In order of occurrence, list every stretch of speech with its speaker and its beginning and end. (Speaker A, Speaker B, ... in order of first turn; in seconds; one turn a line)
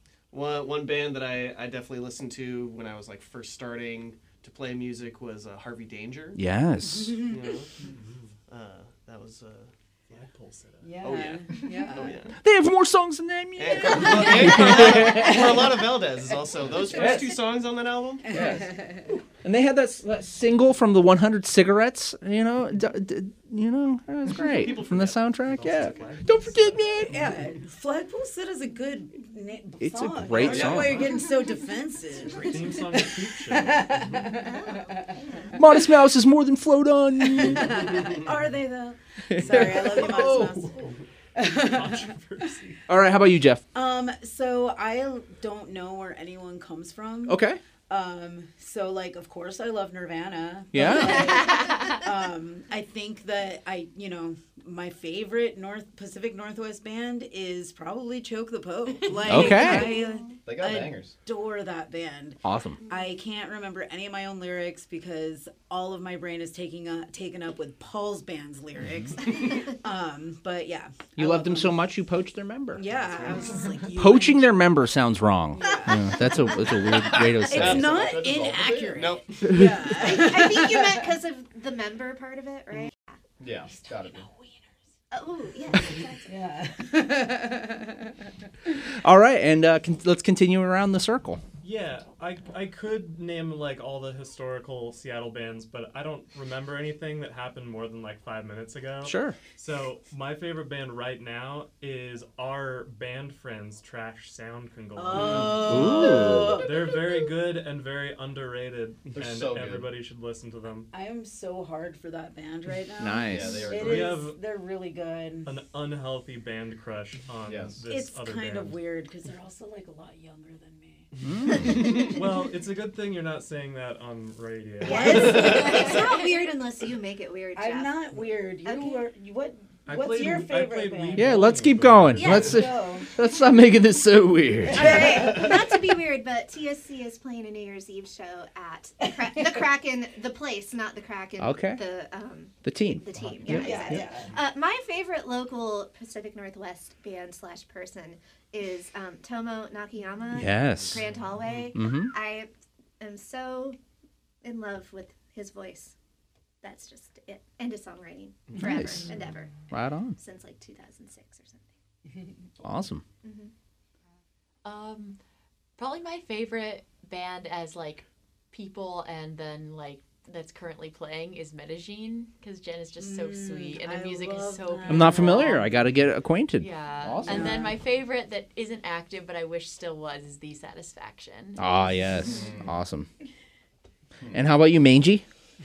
Speaker A: 0.3-6.4
Speaker B: 6.3-7.2
Speaker C: 6.8-7.5
Speaker A: 7.3-7.7
Speaker D: 7.8-8.3
Speaker A: 8.5-12.3
Speaker D: 10.3-10.8
Speaker C: 10.8-12.2
Speaker B: 12.4-15.4
Speaker A: 13.6-18.3
Speaker C: 14.0-15.8
Speaker B: 16.8-17.3
Speaker C: 17.0-17.3
Speaker C: 18.2-19.1
Speaker B: 18.3-18.7
Speaker B: 19.4-27.1
Speaker A: 24.4-26.3
Speaker D: 24.6-27.0
Speaker C: 27.0-35.0
Speaker B: 29.8-31.0
Speaker D: 30.4-31.1
Speaker D: 32.2-34.4
Speaker E: 34.4-35.5
Speaker B: 35.5-38.0
Speaker C: 37.3-40.8
Speaker B: 39.3-40.5
Speaker D: 39.6-42.8
Speaker C: 41.4-42.1
Speaker B: 42.9-43.6
Speaker C: 43.7-71.8
Speaker B: 47.3-47.6
Speaker B: 50.7-51.3
Speaker B: 59.3-59.9
Speaker E: 59.3-60.4
Speaker F: 60.4-61.1
Speaker B: 62.4-62.8
Speaker B: 71.2-72.8
Speaker C: 72.7-74.5
Speaker B: 73.9-77.9
Speaker C: 75.5-76.2
Speaker C: 77.1-81.1
Speaker F: 77.5-79.1
Speaker A: 77.6-77.9
Speaker A: 79.0-79.4
Speaker E: 80.0-83.2
Speaker F: 83.4-84.3
Speaker C: 83.8-84.5
Speaker E: 85.1-86.3
Speaker C: 86.2-88.2
Speaker B: 89.0-91.4
Speaker D: 91.6-110.9
Speaker B: 99.0-99.4
Speaker C: 104.9-107.1
Speaker B: 105.6-106.6
Speaker F: 109.1-109.9
Speaker C: 110.9-115.5
Speaker B: 113.0-113.7
Speaker F: 113.2-114.2
Speaker D: 113.7-114.4
Speaker D: 115.5-118.8
Speaker F: 117.4-117.8
Speaker C: 117.9-121.1
Speaker B: 121.2-121.8
Speaker D: 121.5-126.0
Speaker E: 124.8-128.0
Speaker C: 124.8-126.1
Speaker C: 127.5-131.4
Speaker E: 128.6-129.1
Speaker D: 129.8-132.7
Speaker B: 131.2-135.2
Speaker E: 132.2-132.5
Speaker C: 132.2-133.1
Speaker C: 134.7-135.6
Speaker E: 134.7-153.8
Speaker B: 141.4-141.8
Speaker B: 142.6-144.0
Speaker C: 143.5-144.3
Speaker B: 150.3-151.0
Speaker B: 151.7-152.1
Speaker E: 154.4-155.9
Speaker E: 156.6-159.5
Speaker B: 158.6-159.1
Speaker B: 159.7-160.2
Speaker E: 160.2-161.7
Speaker B: 162.6-163.0
Speaker E: 163.2-163.5
Speaker G: 164.6-165.2
Speaker G: 165.8-175.5
Speaker C: 173.0-175.9
Speaker B: 174.9-177.6
Speaker G: 176.6-181.6
Speaker C: 177.2-177.8
Speaker B: 181.6-183.1
Speaker F: 182.3-182.7
Speaker F: 184.2-184.4
Speaker B: 184.3-185.2